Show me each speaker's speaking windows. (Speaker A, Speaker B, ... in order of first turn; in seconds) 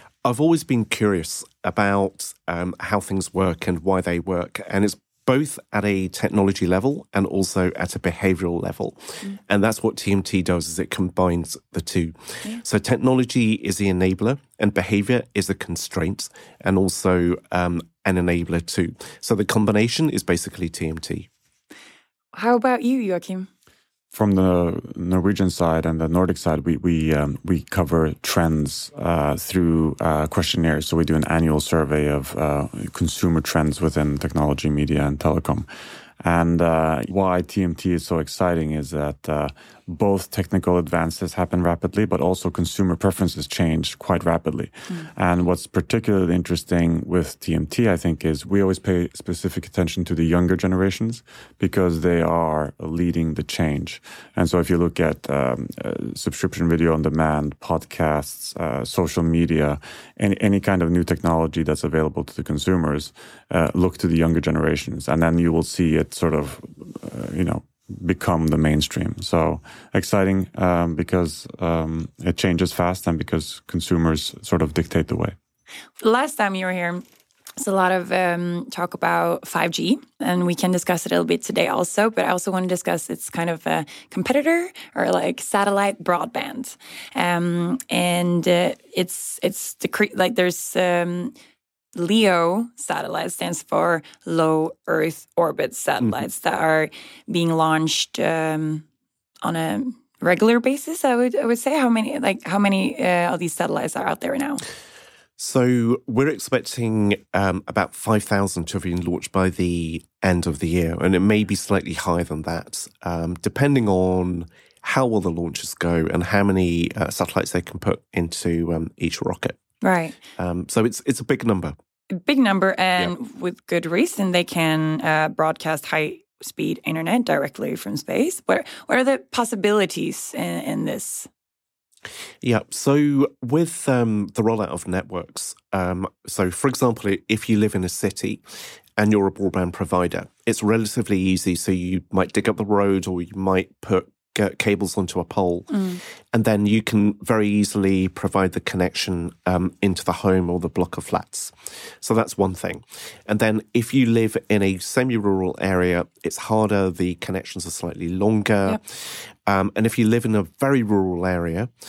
Speaker A: 0.2-21.3, 105.4-119.6, 120.4-121.8, 132.4-145.8, 146.3-161.7
Speaker B: 22.3-23.5, 76.0-77.0, 77.6-91.3, 91.9-98.8, 99.4-104.6, 119.8-120.2, 122.1-131.3, 145.7-146.0
Speaker C: 24.1-35.7, 36.2-75.3